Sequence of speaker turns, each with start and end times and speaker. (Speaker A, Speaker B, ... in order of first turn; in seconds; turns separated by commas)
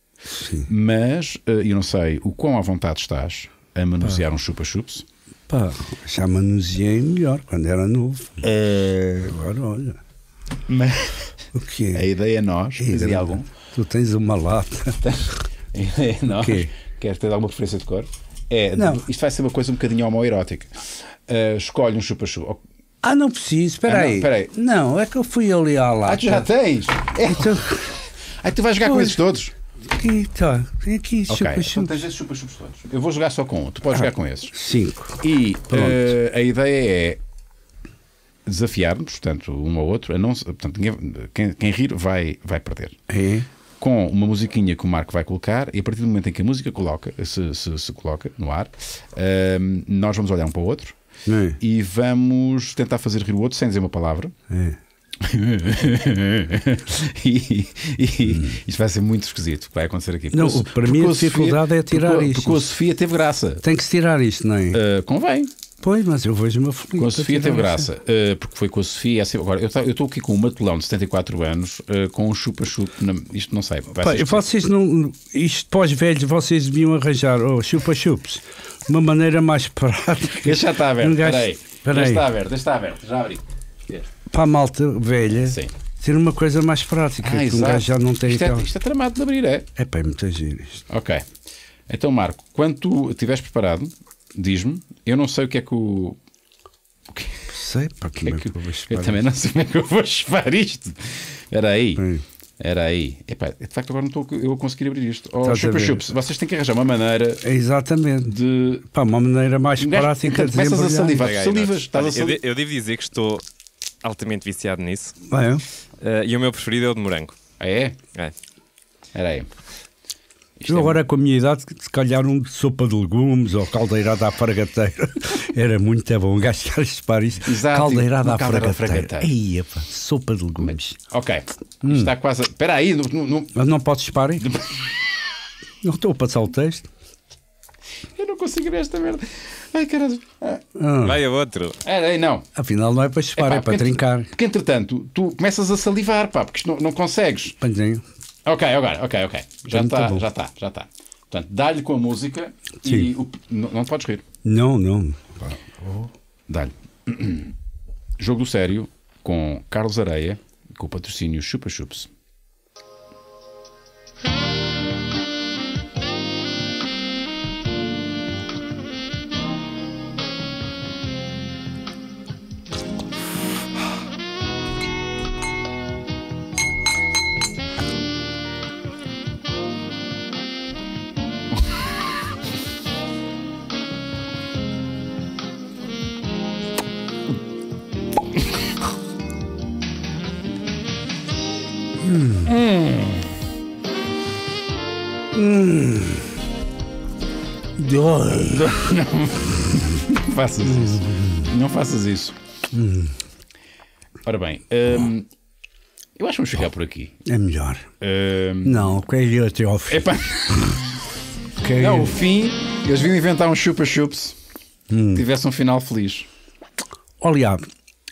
Speaker A: 0.3-0.7, Speaker B: 0.7-5.1, Speaker A: 5.5-10.0, Speaker B: 8.4-9.1, Speaker B: 10.7-11.3, Speaker A: 11.5-12.1, Speaker B: 11.9-13.5, Speaker A: 12.8-15.0, Speaker B: 15.0-20.7, Speaker A: 16.3-16.7, Speaker A: 18.8-19.1, Speaker B: 21.3-22.6, Speaker A: 23.0-26.5, Speaker B: 23.9-24.5, Speaker B: 26.1-27.6, Speaker A: 27.3-27.9, Speaker B: 28.4-29.5, Speaker A: 28.8-29.2, Speaker A: 29.9-32.0, Speaker B: 31.3-34.5, Speaker A: 34.0-36.1, Speaker B: 35.2-37.2, Speaker B: 38.5-43.0, Speaker A: 43.1-43.5, Speaker B: 43.8-51.0, Speaker A: 51.3-51.6, Speaker B: 51.6-54.3, Speaker A: 54.5-54.8, Speaker B: 55.2-63.6, Speaker A: 60.3-62.7, Speaker A: 63.6-64.8, Speaker B: 64.7-65.5, Speaker A: 65.8-67.9, Speaker B: 67.0-74.4, Speaker A: 74.0-82.3, Speaker B: 80.4-84.0, Speaker A: 84.3-88.7, Speaker B: 85.5-85.7, Speaker B: 87.2-89.7, Speaker A: 89.8-90.9, Speaker B: 90.9-91.2, Speaker B: 91.9-96.2, Speaker B: 97.1-97.4, Speaker A: 97.5-99.2, Speaker B: 98.2-102.0, Speaker A: 102.0-102.2, Speaker B: 102.6-107.4, Speaker A: 105.4-106.0, Speaker A: 107.4-108.4, Speaker B: 108.3-108.8, Speaker A: 108.9-111.2, Speaker B: 109.8-112.4, Speaker C: 111.2-113.5, Speaker C: 114.0-115.2, Speaker A: 115.3-115.7, Speaker C: 116.0-117.4, Speaker B: 117.6-118.0, Speaker B: 119.1-119.5, Speaker B: 120.6-121.0, Speaker A: 120.7-131.0, Speaker B: 127.4-129.3, Speaker B: 130.6-133.5, Speaker A: 131.8-132.1, Speaker A: 133.5-134.5, Speaker B: 134.4-134.8, Speaker A: 135.8-136.9, Speaker B: 138.2-140.6, Speaker A: 140.8-141.2, Speaker C: 141.0-141.8, Speaker B: 141.8-142.5, Speaker A: 142.6-144.3, Speaker B: 143.4-147.6, Speaker A: 147.6-148.0, Speaker B: 148.5-154.2, Speaker A: 149.7-150.2, Speaker A: 152.8-153.1, Speaker A: 154.4-156.1, Speaker B: 156.5-157.5, Speaker B: 158.2-162.1, Speaker A: 192.0-192.5, Speaker B: 192.4-193.3, Speaker A: 195.3-196.3, Speaker A: 197.8-198.7, Speaker B: 198.3-202.4, Speaker A: 200.6-201.5, Speaker A: 202.7-203.2, Speaker B: 204.2-205.3, Speaker B: 206.2-207.1, Speaker A: 207.2-207.9, Speaker B: 208.0-208.9, Speaker A: 208.6-210.1, Speaker B: 209.9-210.8, Speaker A: 211.6-212.2, Speaker B: 211.8-214.4, Speaker A: 214.9-215.2, Speaker B: 215.1-216.3, Speaker A: 217.2-217.6